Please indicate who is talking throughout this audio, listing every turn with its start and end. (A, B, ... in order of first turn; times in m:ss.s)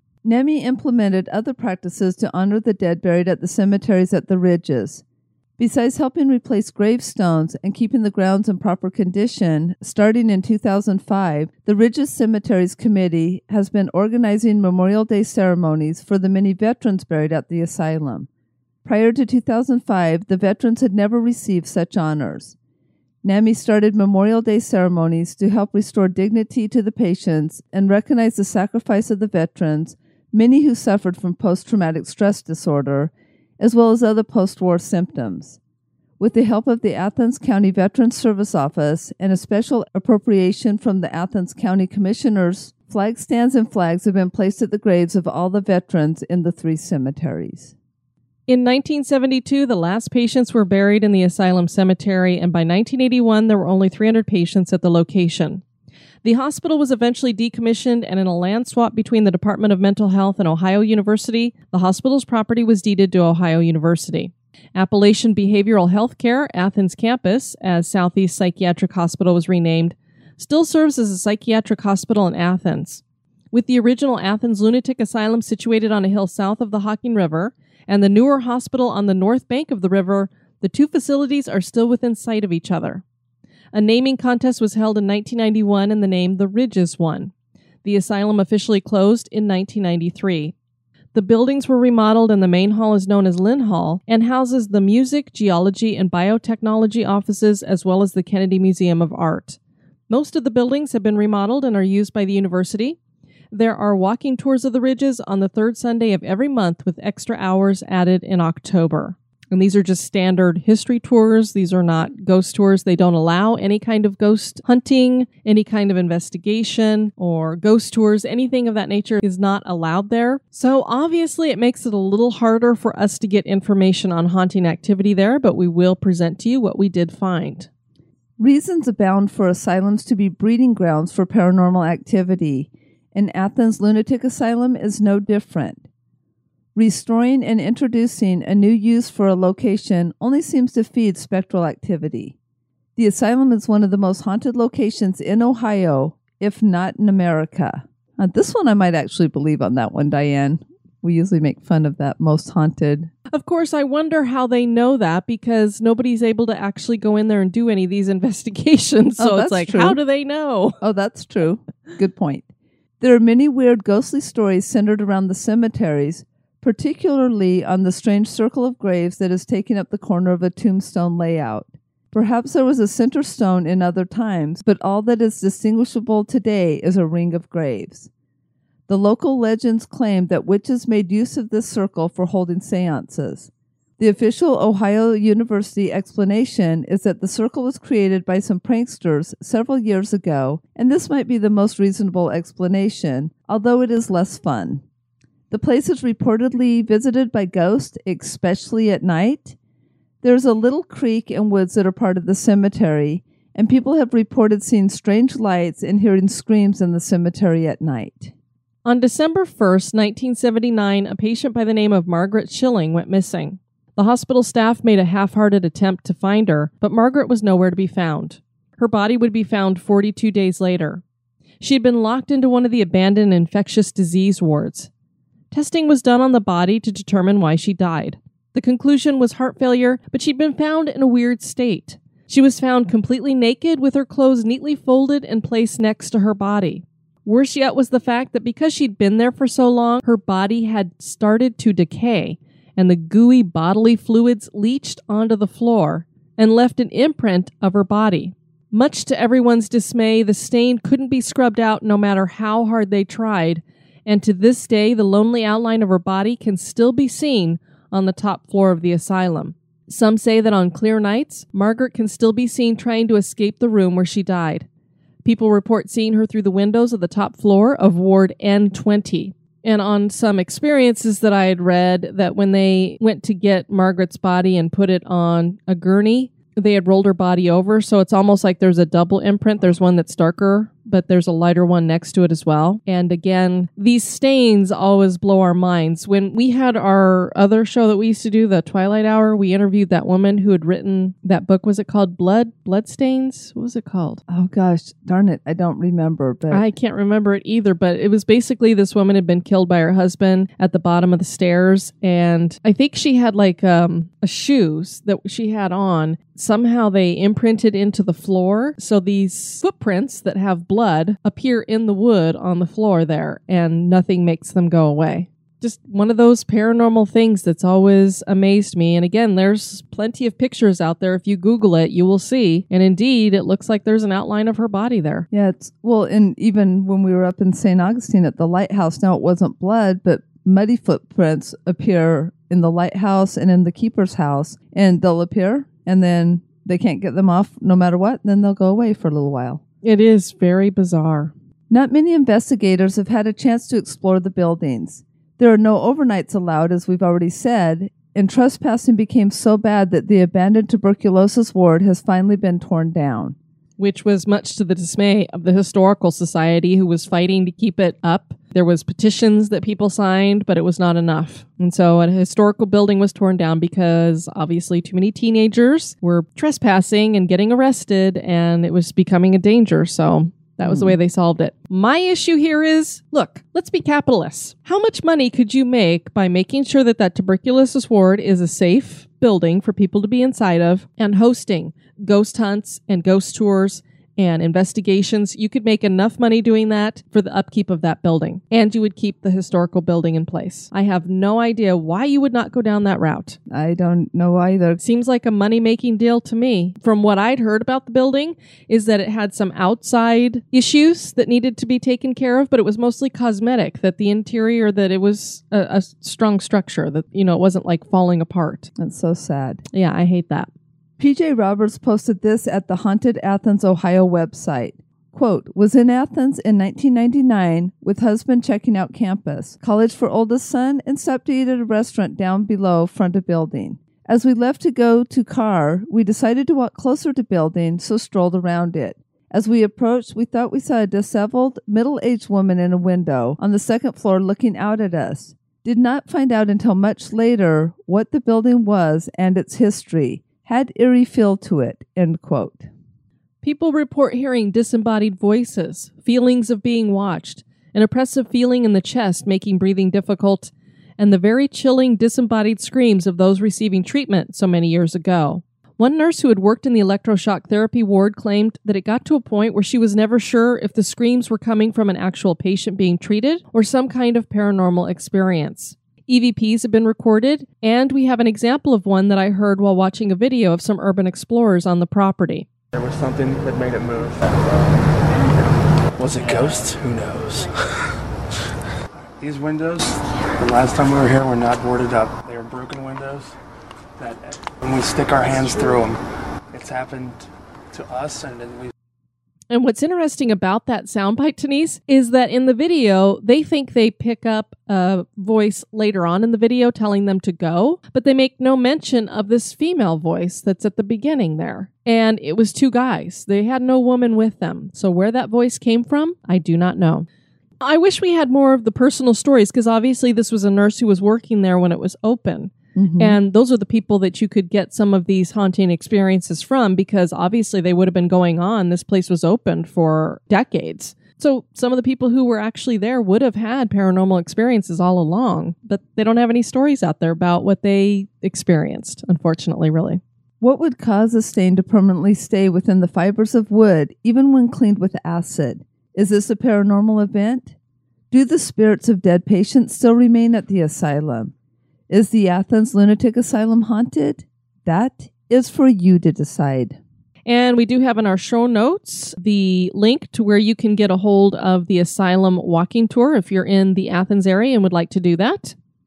0:00.2-0:05.0 A
0:05.6-0:18.3 A
0:18.8-0:22.6 A
0:23.2-0:35.6 A
0:36.2-0:47.7 A
0:48.5-0:55.6 B
0:56.2-1:23.0 B
1:23.7-1:27.3 B
1:27.8-1:30.5 B
1:31.1-1:39.6 B
1:40.1-1:43.0 B
1:43.5-2:07.7 B
2:08.4-2:15.8 A
2:16.7-2:22.3 A
2:23.0-2:33.1 A
2:33.3-2:40.8 B
2:39.2-2:40.0 A
2:40.8-2:42.5 A
2:43.0-2:58.1 A
2:58.9-3:14.8 A
3:15.5-3:19.6 A
3:20.2-3:28.3 A
3:28.8-3:41.0 B
3:41.6-3:44.9 B
3:45.5-4:24.6 B
4:25.2-4:54.2 B
4:54.3-4:56.6 A
4:56.5-5:25.2 B
5:25.3-5:39.6 A
5:39.8-5:41.3 B
5:41.7-5:53.4 A
5:53.8-6:33.4 B
6:10.6-6:10.9 A
6:33.5-6:34.8 A
6:34.8-6:48.7 B
6:48.8-6:49.6 A
6:49.7-6:50.5 B
6:51.0-7:22.7 A
7:23.4-7:52.5 B
7:52.7-7:55.0 C
7:56.0-7:57.7 C
7:59.2-8:03.3 C
8:04.0-8:06.0 C
8:06.5-8:08.7 C
8:09.5-8:27.1 B
8:27.6-8:50.0 B
8:32.8-8:33.2 A
8:50.4-8:57.5 A
8:58.1-9:01.3 A
9:01.9-9:06.8 A
9:07.2-9:15.5 B